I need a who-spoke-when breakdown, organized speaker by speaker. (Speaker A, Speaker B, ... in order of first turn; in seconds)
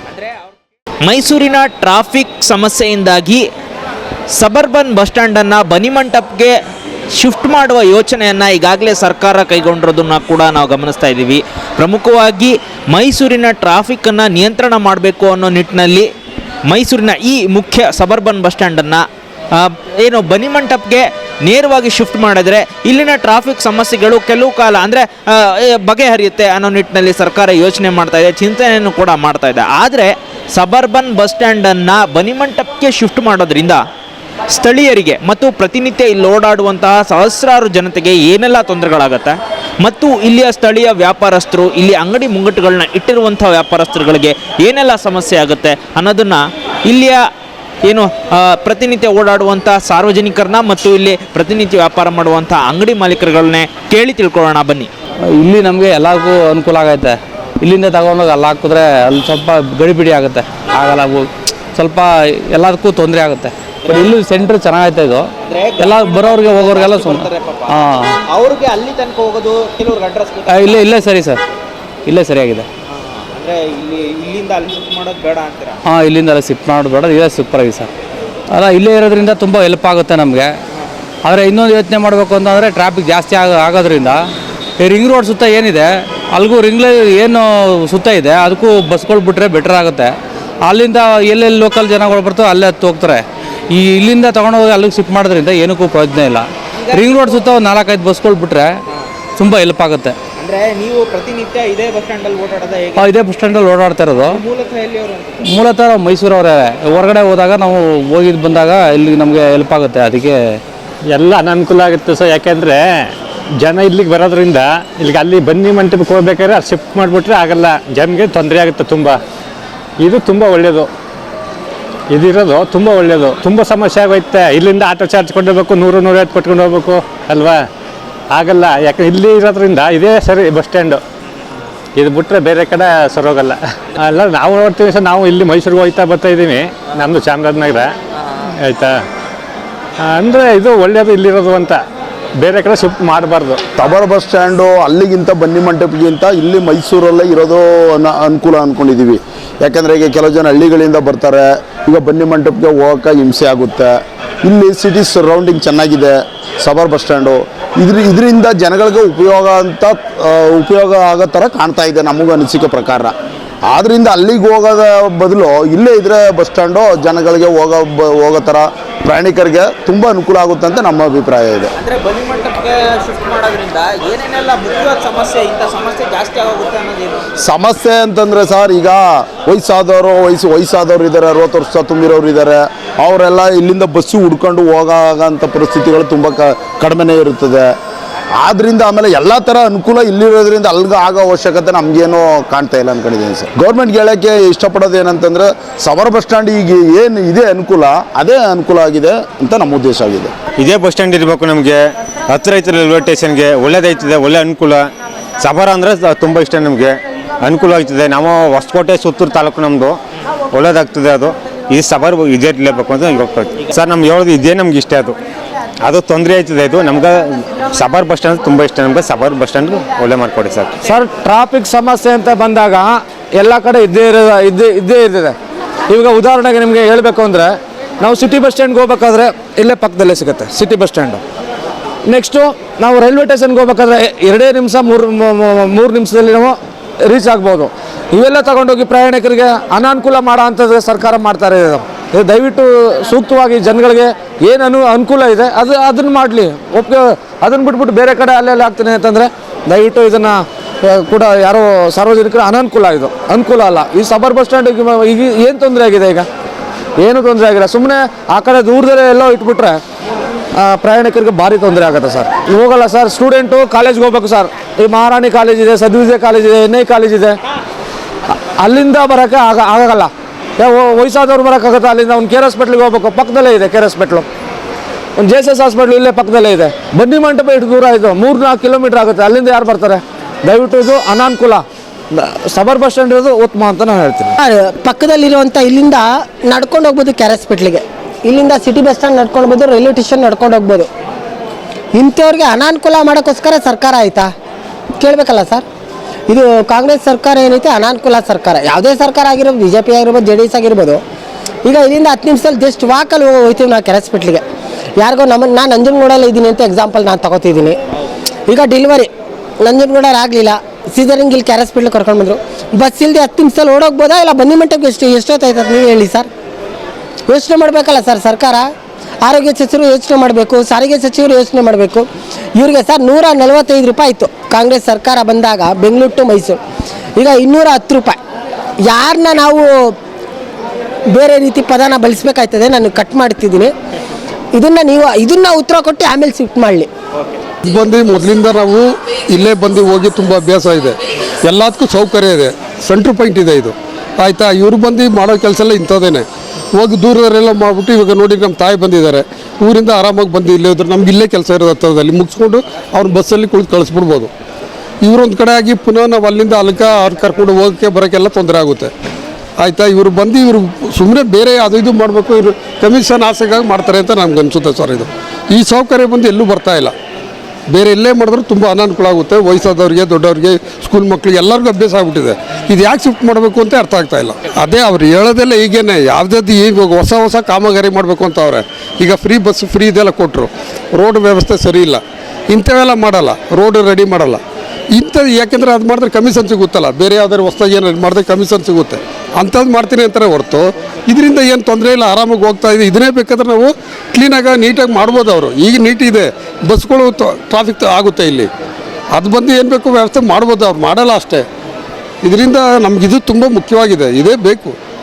Speaker A: 1.0-3.4, 4.3-6.5, 7.1-16.1, 16.7-33.8, 34.5-47.2, 47.8-54.9, 63.9-64.2, 65.5-71.0, 72.9-75.8, 96.9-97.5, 100.4-103.1, 104.2-105.4, 171.8-177.4
Speaker B: 55.3-65.2, 65.8-68.2, 70.5-71.4, 72.1-72.7, 75.8-77.9, 78.5-80.5, 81.2-84.2, 84.8-90.1, 90.6-98.7, 99.4-100.2, 103.0-104.4, 105.4-110.6
Speaker C: 111.1-119.2, 120.0-120.9, 122.1-127.6, 128.3-131.0, 131.9-137.9, 138.6-138.9, 140.0-141.8, 142.4-143.6
Speaker D: 143.8-163.1, 163.7-171.7, 177.4-187.7, 188.4-200.3
Speaker E: 200.6-201.8, 202.3-204.8, 205.4-210.0, 210.5-215.1, 215.8-220.8
Speaker F: 220.8-225.3, 225.9-231.2, 232.1-256.3, 257.0-259.8, 260.5-267.4, 268.6-274.2, 275.2-284.3
Speaker G: 284.4-290.9, 291.9-294.3, 295.0-295.6, 296.3-301.0, 301.6-304.4, 305.0-307.8, 308.5-309.1, 309.6-316.3, 317.3-318.7, 319.2-326.6, 327.2-328.2, 328.8-329.9, 331.1-333.7, 334.5-336.9
Speaker H: 337.6-354.3, 355.0-358.9, 359.6-366.9, 367.7-384.4, 384.9-398.5, 399.1-401.4, 402.2-404.7